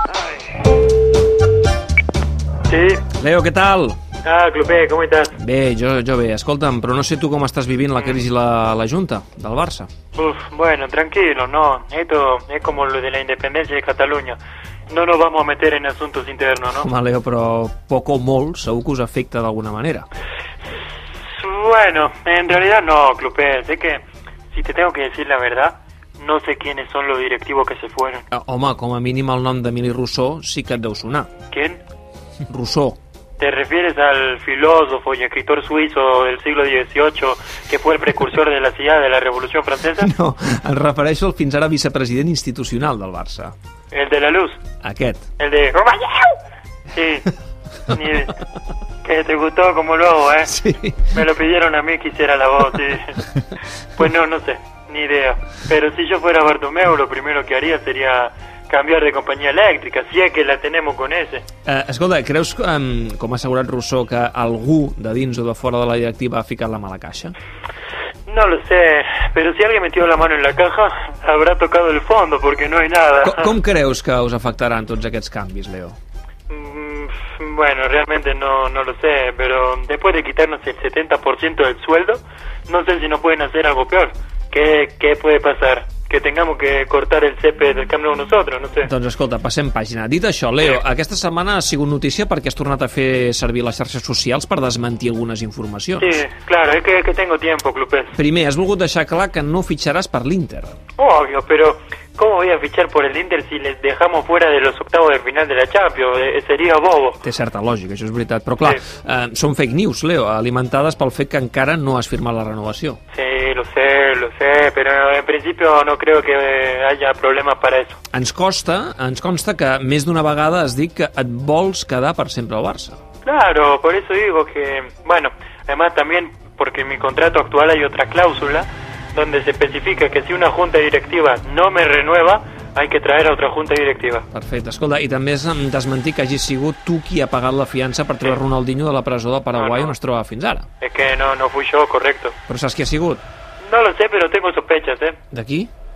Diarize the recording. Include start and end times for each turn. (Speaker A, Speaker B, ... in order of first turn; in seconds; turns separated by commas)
Speaker A: 2.7-3.0, Speaker B: 3.1-4.0, Speaker A: 4.2-5.4, Speaker B: 5.3-9.9, Speaker A: 10.2-14.4, Speaker A: 14.9-16.9, Speaker B: 16.8-20.1, Speaker A: 21.3-28.3, Speaker B: 28.3-31.3, Speaker A: 31.5-31.8, Speaker B: 32.5-33.0, Speaker A: 33.4-40.1, Speaker B: 40.0-43.5, Speaker A: 43.9-44.6, Speaker B: 44.8-45.3, Speaker A: 45.4-46.4, Speaker A: 46.9-47.3, Speaker A: 47.9-48.4, Speaker A: 49.0-53.2, Speaker B: 50.5-51.1, Speaker A: 54.0-61.5, Speaker B: 61.7-67.3, Speaker A: 68.3-73.5, Speaker B: 73.2-76.0, Speaker A: 76.5-88.9, Speaker B: 88.8-96.1, Speaker A: 96.0-98.2, Speaker B: 98.2-100.7, Speaker A: 101.0-107.2, Speaker B: 107.2-113.0, Speaker A: 113.1-118.0, Speaker B: 118.1-123.0, Speaker A: 123.2-134.3, Speaker B: 134.3-140.7, Speaker A: 139.6-139.9, Speaker A: 140.8-142.4, Speaker B: 142.5-143.2, Speaker A: 143.6-145.2, Speaker B: 145.3-145.7